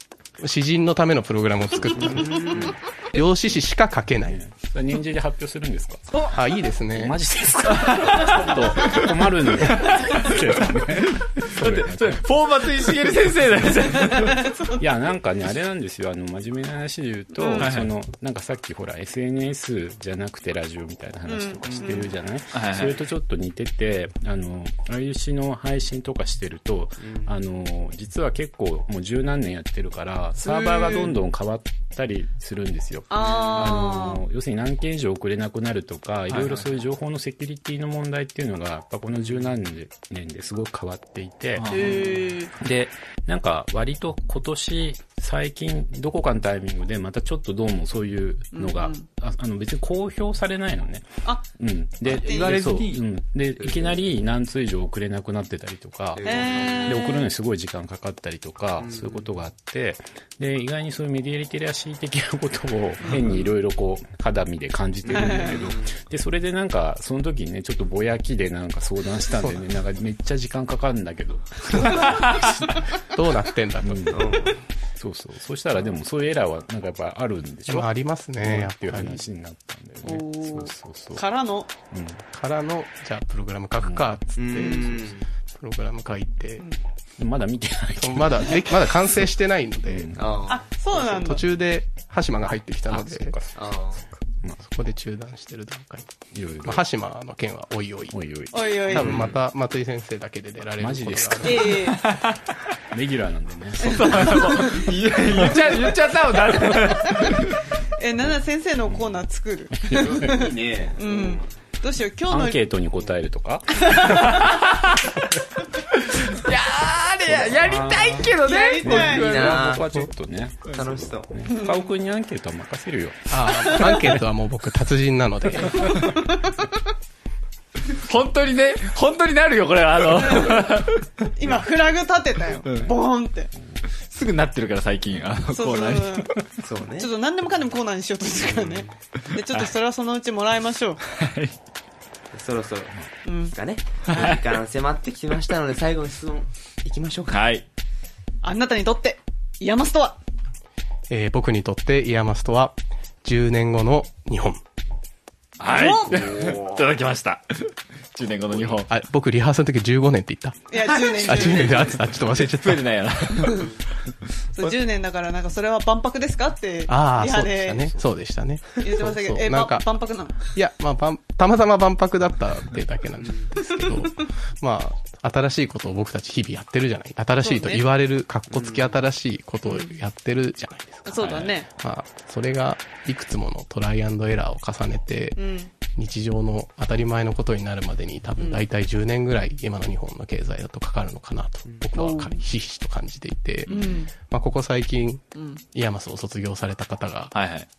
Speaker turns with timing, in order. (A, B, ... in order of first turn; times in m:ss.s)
0:00.4-0:04.4 A
0:01.9-0:02.8 B
0:04.3-0:06.3 C
0:06.3-0:07.2 A
0:06.9-0:12.2 C
0:07.9-0:08.9 D
0:09.8-0:14.4 D
0:14.0-0:14.8 E
0:14.8-0:42.0 C
0:17.3-0:17.7 E
0:17.6-0:17.9 D
0:21.2-0:22.1 E
0:21.7-0:22.0 B
0:22.5-0:23.0 D
0:27.0-0:27.3 B
0:30.4-0:31.1 E
0:33.1-0:34.2 E
0:33.2-0:33.7 B
0:36.3-0:36.7 D
0:41.6-0:42.1 D
0:41.7-0:42.5 E
0:42.6-1:13.0 C
0:48.5-0:49.0 E
0:52.0-0:53.0 D
0:52.2-0:52.6 E
0:56.1-0:57.0 B
0:56.2-0:57.3 E
0:58.8-0:59.3 B
1:05.0-1:06.0 B
1:05.1-1:05.6 E
1:13.0-1:14.3 A
1:13.8-1:14.4 C
1:14.1-1:14.6 B
1:15.0-1:21.2 C
1:17.7-1:19.2 A
1:20.0-1:21.7 E
1:21.9-1:22.2 C
1:22.3-1:26.6 A
1:23.8-1:24.1 C
1:24.4-1:25.3 B
1:24.5-1:24.8 E
1:27.2-1:29.2 C
1:28.0-1:30.3 A
1:29.9-1:30.2 C
1:30.2-1:30.6 B
1:30.5-1:31.4 E
1:30.9-1:33.3 A
1:32.9-1:34.6 C
1:33.6-1:34.0 B
1:34.6-1:38.2 A
1:36.3-1:36.8 C
1:38.1-1:39.3 C
1:38.5-1:39.2 E
1:38.9-1:41.7 A
1:38.9-1:39.3 D
1:40.8-1:41.9 C
1:41.4-1:42.0 E
1:41.8-1:42.4 D
1:42.9-1:44.6 C
1:43.8-1:47.6 D
1:43.8-1:44.9 E
1:45.5-1:45.8 E
1:46.8-1:47.4 E
1:48.0-1:52.6 E
1:49.7-1:51.0 C
1:50.0-1:51.4 B
1:52.3-1:54.3 C
1:53.9-1:54.3 E
1:54.0-1:55.0 D
1:55.9-1:59.8 D
1:57.5-2:04.2 C
1:58.4-1:59.2 E
1:59.1-2:00.1 B
2:00.7-2:01.3 B
2:01.5-2:01.9 E
2:03.3-2:06.0 A
2:03.5-2:04.0 E
2:05.7-2:06.7 E
2:08.0-2:11.6 D
2:10.2-2:10.6 E
2:11.4-2:13.5 E
2:12.6-2:12.9 D
2:14.0-2:16.3 D
2:15.5-2:16.4 E
2:16.6-2:17.1 B
2:17.0-2:21.0 E
2:18.4-2:18.9 B
2:21.0-2:21.5 D
2:22.3-2:27.4 B
2:23.2-2:23.5 E
2:24.1-2:24.6 D
2:27.3-2:27.6 D
2:28.4-2:30.2 E
2:31.1-2:34.6 A
2:35.6-2:38.9 D
2:35.7-2:36.2 E
2:36.1-2:36.9 B
2:38.8-2:42.8 A
2:40.7-2:42.0 E
2:40.8-2:43.8 D
2:43.3-2:43.7 E
2:44.5-2:47.9 E
2:46.9-2:49.9 A
2:48.8-2:50.5 E
2:50.4-3:05.4 A
2:53.2-2:53.5 B
2:53.6-2:54.2 E
2:57.4-2:57.8 E
2:58.5-2:58.9 B
2:59.6-2:59.9 E
3:01.0-3:01.7 E
3:01.2-3:01.5 D
3:05.4-3:05.7 E
3:05.9-3:17.3 A
3:08.4-3:08.6 E
3:12.0-3:12.4 E
3:13.7-3:14.1 E
3:15.3-3:15.6 E
3:17.3-3:17.7 D